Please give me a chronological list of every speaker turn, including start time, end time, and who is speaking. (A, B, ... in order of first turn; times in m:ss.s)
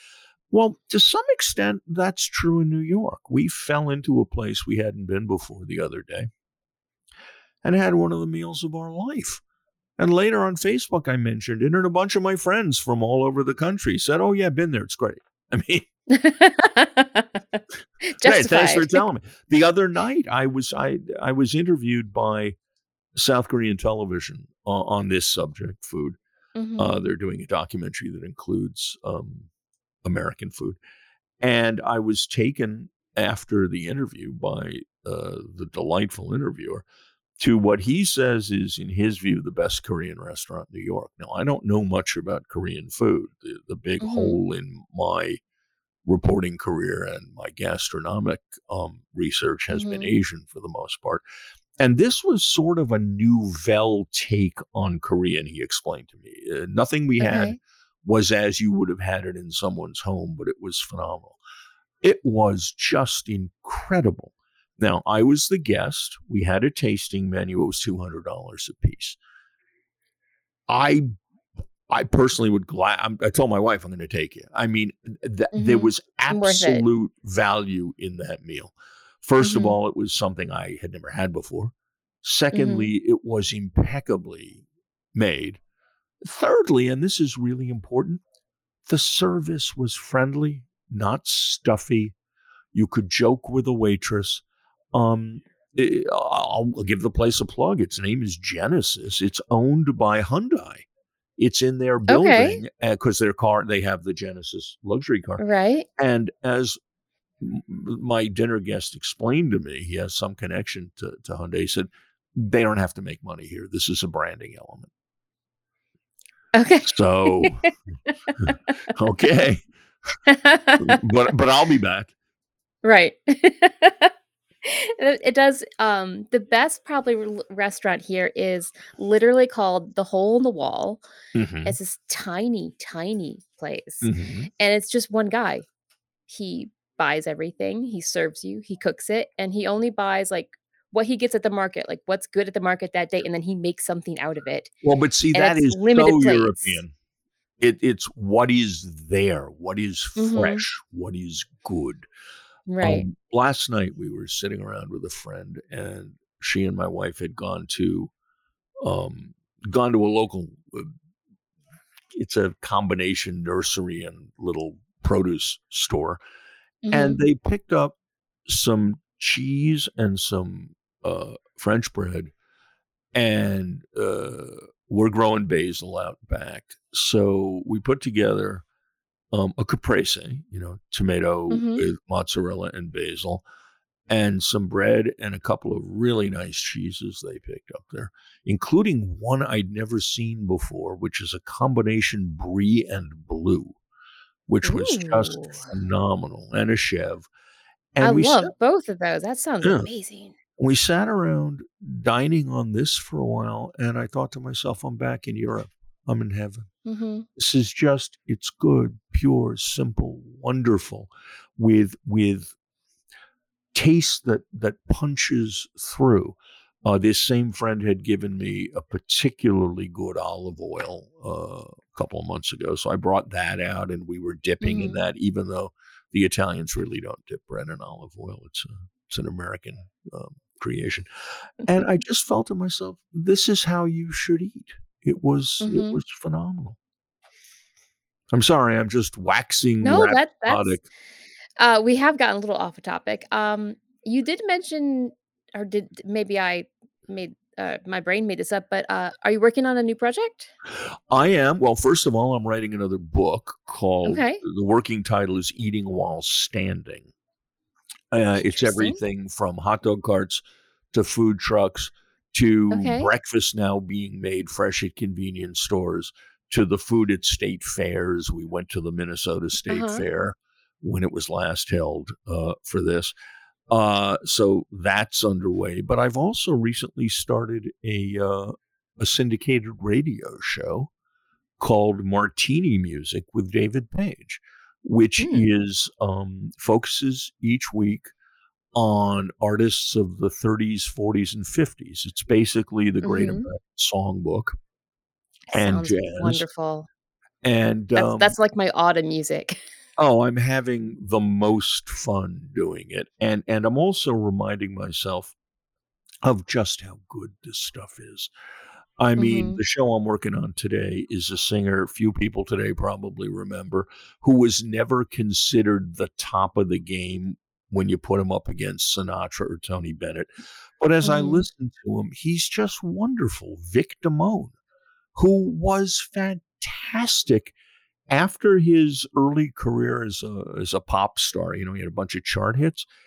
0:00.5-0:06.3 A
0:07.6-0:09.4 A
0:10.0-0:15.8 A
0:16.1-0:19.0 B
0:18.2-0:22.5 A
0:23.2-0:26.2 A
0:26.6-0:27.1 B
0:26.8-0:29.5 A
0:30.0-0:30.8 A
0:31.4-0:36.8 A
0:37.4-0:45.4 A
0:44.0-0:44.4 B
0:46.0-0:51.2 A
0:49.7-0:50.1 B
0:51.8-1:01.4 A
0:57.2-0:57.6 B
1:02.0-1:09.2 A
1:10.7-1:11.0 A
1:11.9-1:24.6 A
1:15.5-1:16.8 B
1:19.4-1:19.8 B
1:22.5-1:22.9 B
1:25.1-1:25.6 A
1:26.2-1:28.2 A
1:28.9-1:32.1 A
1:32.7-1:40.8 A
1:41.4-1:45.4 A
1:42.1-1:42.6 B
1:45.4-1:45.9 B
1:46.0-1:46.8 A
1:47.4-1:54.9 A
1:56.5-1:57.7 B
1:56.9-1:57.6 A
1:58.3-1:58.5 B
1:58.5-1:59.7 A
2:00.2-2:01.0 B
2:00.8-2:02.1 A
2:02.8-2:04.1 B
2:04.6-2:11.0 B
2:11.3-2:11.8 A
2:11.6-2:15.6 B
2:14.0-2:14.5 A
2:16.3-2:24.7 B
2:24.8-2:26.9 A
2:25.3-2:26.8 B
2:27.6-2:32.0 A
2:30.2-2:30.6 B
2:32.7-2:33.1 B
2:32.8-2:38.1 A
2:38.8-2:40.9 A
2:42.1-2:46.2 A
2:46.8-2:47.2 B
2:46.9-2:48.0 A
2:48.5-2:52.3 A
2:53.1-2:58.6 A
2:59.3-3:03.4 A
3:01.5-3:01.8 B
3:04.1-3:13.8 A
3:14.5-3:17.3 A
3:14.6-3:15.7 B
3:17.9-3:18.5 A
3:18.0-3:20.4 B
3:19.6-3:19.9 A
3:20.6-3:26.7 A
3:26.8-3:27.3 B
3:27.4-3:32.5 A
3:33.7-3:51.0 A
3:44.6-3:45.0 B
3:51.6-3:56.8 A
3:55.6-3:56.0 B
3:58.3-4:00.8 A
3:59.8-4:00.8 B
4:01.6-4:10.5 B
4:11.1-4:17.1 A
4:14.0-4:14.4 B
4:18.1-4:33.1 A
4:18.5-4:19.0 B
4:22.7-4:23.1 B
4:29.7-4:30.0 B
4:33.7-4:40.9 A
4:41.6-4:48.1 A
4:45.2-4:45.5 B
4:48.7-4:54.5 A
4:53.0-4:53.5 B
4:55.5-4:56.9 B
4:55.5-4:56.4 A
4:57.4-4:58.3 A
4:57.9-4:59.6 B
5:00.0-5:05.3 A
5:06.2-5:08.3 A
5:09.0-5:24.5 A
5:09.2-5:09.6 B
5:21.0-5:21.5 B
5:25.1-5:27.5 A
5:28.1-5:32.9 A